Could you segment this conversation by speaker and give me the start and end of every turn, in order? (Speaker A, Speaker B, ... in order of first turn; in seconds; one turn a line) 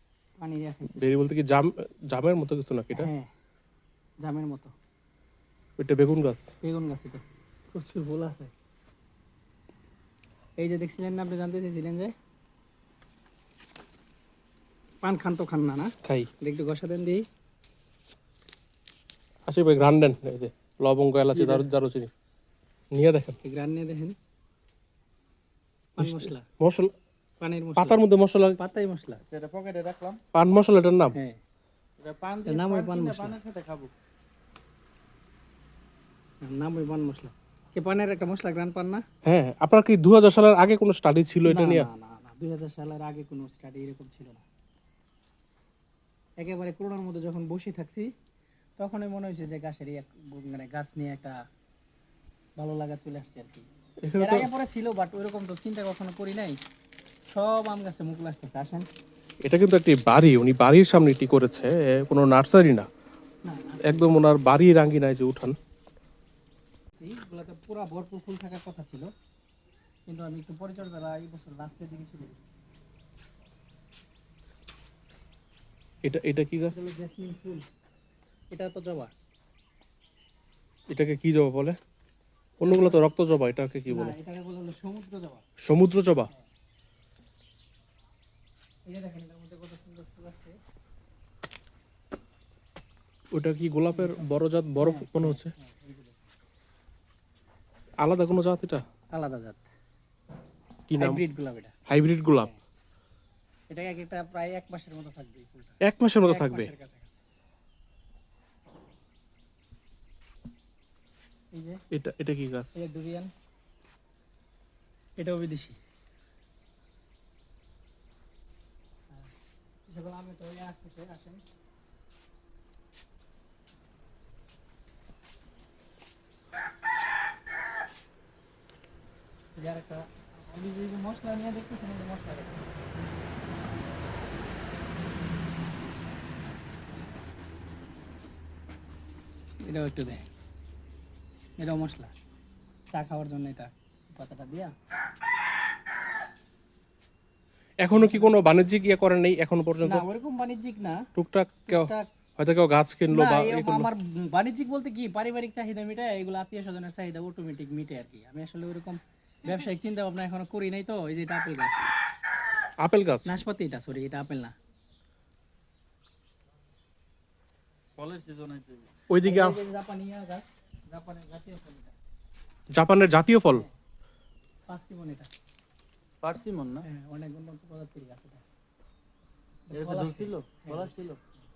Speaker A: 0.4-1.1
Speaker B: 1.0-3.1
Speaker A: 2.9-3.3
Speaker A: 4.2-4.7
Speaker B: 5.8-6.5
Speaker A: 6.6-8.5
Speaker A: 10.6-12.1
Speaker A: 15.0-17.2
Speaker B: 16.0-16.3
Speaker B: 19.5-22.1
Speaker A: 21.3-21.7
Speaker B: 22.9-23.4
Speaker A: 23.4-24.2
Speaker A: 26.0-26.5
Speaker B: 26.0-26.9
Speaker A: 27.4-28.0
Speaker B: 27.8-28.6
Speaker A: 28.6-29.2
Speaker C: 29.3-30.2
Speaker B: 30.3-31.2
Speaker A: 31.1-31.4
Speaker C: 32.0-33.9
Speaker A: 32.5-33.4
Speaker A: 36.4-39.0
Speaker B: 39.2-41.9
Speaker A: 41.5-44.4
Speaker A: 46.4-48.1
Speaker A: 48.8-51.3
Speaker A: 52.6-53.7
Speaker B: 54.0-54.5
Speaker A: 54.2-56.6
Speaker A: 57.3-58.9
Speaker B: 59.4-62.9
Speaker A: 63.5-64.1
Speaker B: 63.9-65.6
Speaker A: 66.9-69.1
Speaker A: 70.1-72.5
Speaker B: 76.0-76.8
Speaker A: 76.7-77.6
Speaker A: 78.5-79.1
Speaker B: 80.9-81.8
Speaker A: 82.6-83.0
Speaker B: 82.6-84.2
Speaker A: 83.9-85.4
Speaker B: 85.6-86.3
Speaker A: 88.9-90.5
Speaker B: 93.3-95.5
Speaker A: 93.9-96.2
Speaker B: 98.0-98.8
Speaker A: 99.1-99.6
Speaker B: 100.9-101.2
Speaker A: 101.0-101.7
Speaker B: 101.9-102.5
Speaker A: 103.7-107.2
Speaker B: 105.8-106.7
Speaker A: 111.5-111.8
Speaker B: 111.9-112.7
Speaker A: 112.7-113.3
Speaker A: 115.2-115.8
Speaker A: 119.9-121.4
Speaker A: 129.6-132.7
Speaker A: 139.6-140.3
Speaker A: 141.6-142.1
Speaker A: 142.9-144.7
Speaker B: 147.8-150.1
Speaker A: 147.9-148.4
Speaker A: 149.8-151.1
Speaker B: 151.1-153.9
Speaker A: 151.7-152.1
Speaker A: 153.1-161.9
Speaker B: 162.8-163.4
Speaker A: 163.2-164.5
Speaker C: 168.0-168.9
Speaker B: 169.1-169.6
Speaker A: 169.2-171.9
Speaker B: 172.7-173.6
Speaker A: 174.7-175.3
Speaker C: 176.2-176.8
Speaker A: 176.8-178.4
Speaker A: 179.7-181.1
Speaker C: 179.7-181.2